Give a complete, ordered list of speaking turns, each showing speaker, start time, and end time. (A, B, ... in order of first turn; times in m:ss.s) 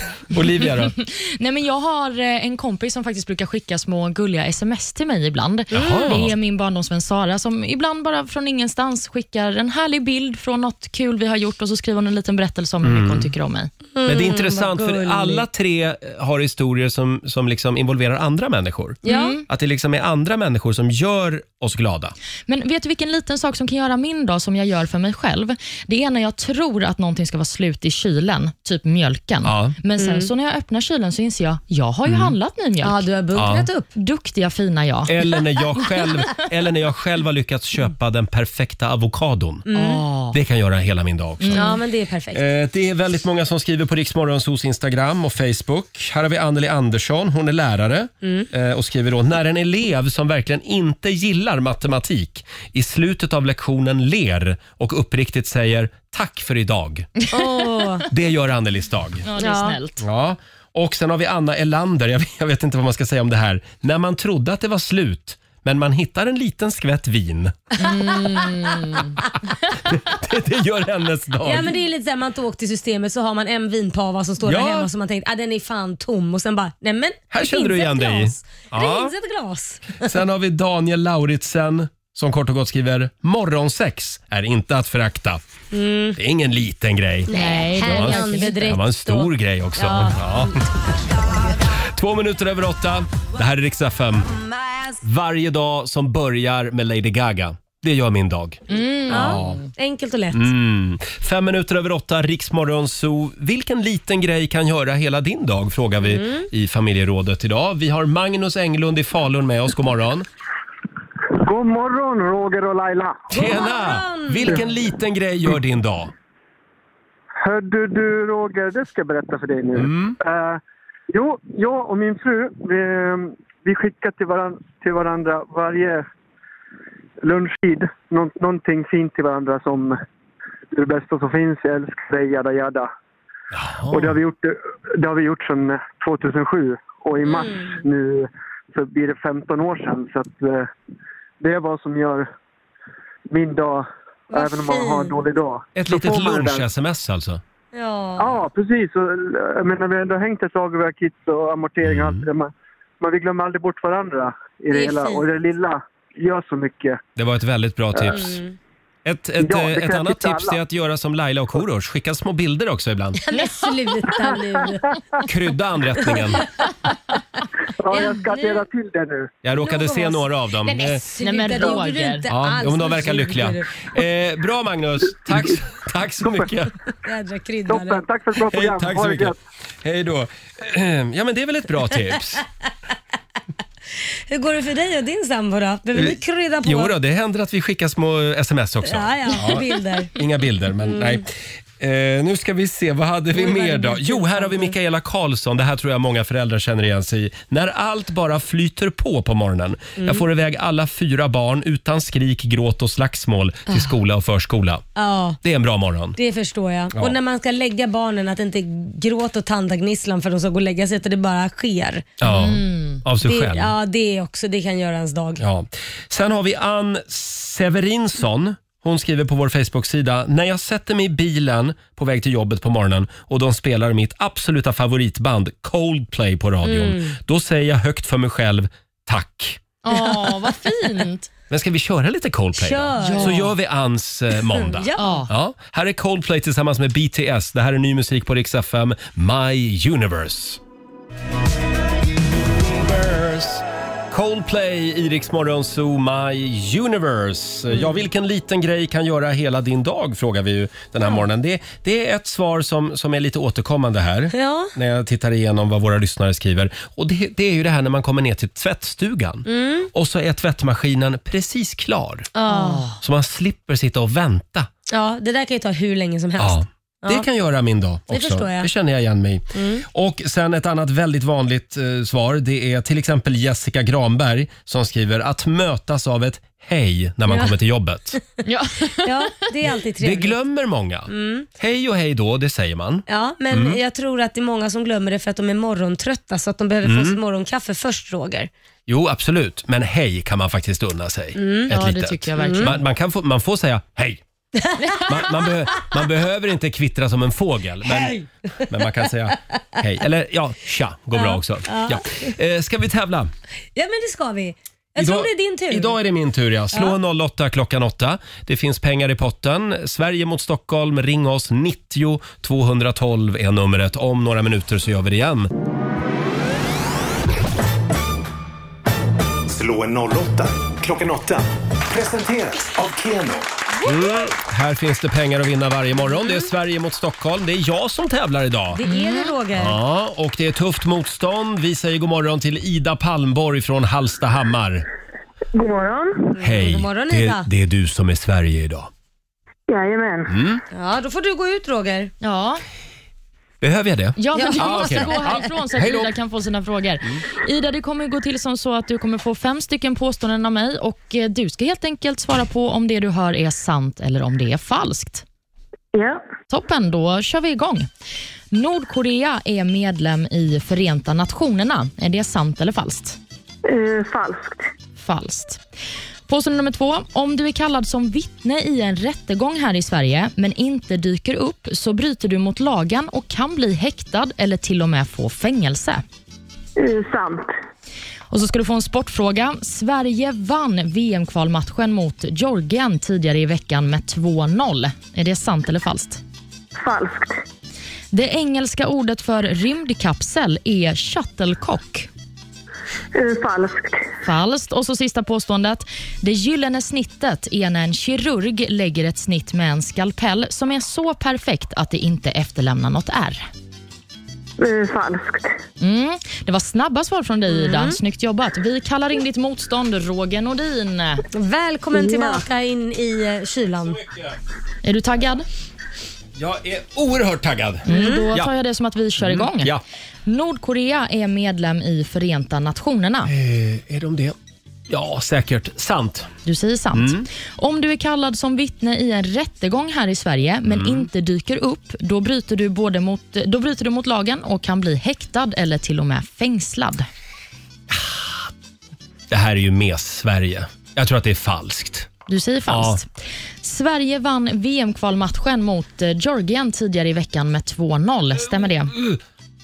0:00.3-0:00.9 A
0:00.8-0:13.7 B
0:05.7-0:06.3 A
0:05.7-0:06.2 C
0:12.8-0:13.3 A
0:14.0-0:15.4 C
0:14.0-0:22.1 A
0:19.0-0:19.4 C
0:19.0-0:19.4 B
0:22.5-0:33.0 B
0:29.4-0:29.8 A
0:30.0-0:30.3 C
0:32.0-0:32.3 A
0:32.8-0:33.9 C
0:33.3-0:33.7 A
0:33.9-0:35.2 B
0:35.1-0:39.6 A
0:39.7-0:40.0 C
0:39.7-0:40.4 B
0:40.3-0:41.8 A
0:41.4-0:41.7 B
0:41.5-0:42.4 C
0:42.3-0:57.1 A
0:48.2-0:48.5 C
0:57.2-0:57.6 B
0:57.3-0:58.1 C
0:58.1-0:59.2 A
0:59.2-1:00.0 B
0:59.4-0:59.8 C
1:00.0-1:07.7 A
1:07.8-1:09.1 B
1:07.9-1:08.5 C
1:09.9-1:11.7 A
1:11.4-1:20.1 C
1:14.4-1:14.9 A
1:17.3-1:19.1 A
1:20.0-1:25.4 A
1:25.7-1:26.2 C
1:26.2-1:30.6 A
1:27.3-1:30.6 C
1:27.3-1:28.7 B
1:31.7-1:34.3 A
1:35.0-1:39.6 A
1:38.7-1:39.6 B
1:39.1-1:40.5 C
1:40.3-1:50.3 A
1:46.0-1:46.5 C
1:51.4-1:53.4 D
1:53.3-1:56.1 A
1:53.3-1:54.6 C
1:57.4-2:06.0 D
1:59.7-2:00.2 A
2:07.2-2:10.0 D
2:10.7-2:12.9 D
2:13.5-2:14.2 A
2:13.9-2:20.7 D
2:17.2-2:17.8 C
2:21.4-2:22.3 D
2:23.3-2:26.7 D
2:24.3-2:25.2 C
2:25.7-2:27.4 A
2:27.7-2:28.4 C
2:28.2-2:37.0 D
2:31.8-2:32.2 A
2:34.7-2:35.2 C
2:37.2-2:38.4 A
2:38.1-2:38.6 C
2:39.0-2:43.2 A
2:39.4-2:40.6 D
2:43.2-2:45.0 C
2:43.3-2:43.6 B
2:44.3-2:44.6 D
2:45.2-2:46.4 A
2:46.0-2:46.4 C
2:47.8-2:49.3 D
2:47.9-2:48.7 C
2:49.4-2:51.0 A
2:49.6-2:53.9 C
2:51.2-2:52.2 B
2:52.3-2:56.8 A
2:57.0-2:58.0 C
2:57.7-2:59.4 D
2:58.4-3:02.4 A
3:04.3-3:06.9 C
3:05.9-3:24.8 A
3:08.8-3:10.1 C
3:10.9-3:11.2 C
3:13.3-3:14.7 C
3:20.0-3:20.2 C
3:25.0-3:25.4 C
3:25.4-3:26.2 A
3:26.2-3:32.1 C
3:32.2-3:33.7 A
3:32.2-3:33.0 B
3:33.2-3:35.4 C
3:35.4-3:49.6 A
3:46.6-3:47.2 C
3:49.8-3:51.3 B
3:51.5-4:00.6 A
3:52.6-3:53.5 C
3:53.0-3:53.5 B
3:54.5-3:55.2 C
3:55.0-3:55.3 B
4:02.5-4:22.3 A
4:14.3-4:14.7 C
4:19.5-4:19.9 C
4:22.3-4:22.9 C
4:22.5-4:23.0 B
4:23.0-4:24.7 A
4:24.9-4:27.2 C
4:26.4-4:38.2 A
4:28.1-4:28.7 C
4:29.5-4:29.8 C
4:37.3-4:37.6 C
4:38.4-4:39.3 B
4:39.0-4:40.4 C
4:40.0-4:43.8 A
4:41.1-4:41.5 C
4:43.1-4:48.5 C
4:46.8-4:47.2 A
4:48.9-4:54.2 A
4:51.4-4:51.7 C
4:51.7-4:52.8 B
4:52.4-4:52.8 C
4:54.6-4:55.8 C
4:55.0-5:03.3 A
4:57.8-4:58.8 C
5:01.1-5:02.3 C
5:03.7-5:06.0 C
5:05.0-5:15.5 A
5:19.5-5:23.5 E
5:23.8-5:28.8 A
5:28.7-5:29.8 C
5:28.9-5:29.3 B
5:29.5-5:34.8 A
5:35.5-5:36.3 F
5:36.4-5:37.5 C
5:36.4-5:38.9 A
5:39.7-5:40.3 F
5:40.3-5:40.6 A
5:40.7-5:42.1 C
5:42.2-5:42.6 B
5:43.6-5:46.1 A
5:44.2-5:55.2 B
5:44.3-5:45.4 C
5:55.9-5:56.2 F
5:56.5-5:57.9 B
5:58.5-6:03.2 B
6:03.6-6:04.7 F
6:05.0-6:05.6 B
6:06.3-6:16.0 B
6:16.8-6:17.5 F
6:18.3-6:26.2 B
6:26.8-6:27.4 F
6:28.1-6:32.1 B
6:33.1-6:34.1 F
6:34.2-6:43.5 B
6:44.6-6:45.6 F
6:45.8-6:51.2 B
6:47.5-6:48.0 C
6:51.3-6:54.0 C
6:53.8-6:54.4 A
6:54.8-6:55.4 B
6:56.4-6:58.5 A
6:57.9-6:59.7 B
6:57.9-6:58.2 C
6:59.2-6:59.8 A
7:00.2-7:03.3 B
7:03.2-7:04.4 A
7:04.9-7:06.3 A
7:06.4-7:17.1 B
7:06.9-7:07.3 A
7:10.6-7:11.1 A
7:17.9-7:18.5 A
7:19.3-7:22.1 A
7:22.3-7:23.1 B
7:22.7-7:23.0 A
7:23.6-7:28.9 B
7:28.4-7:29.2 A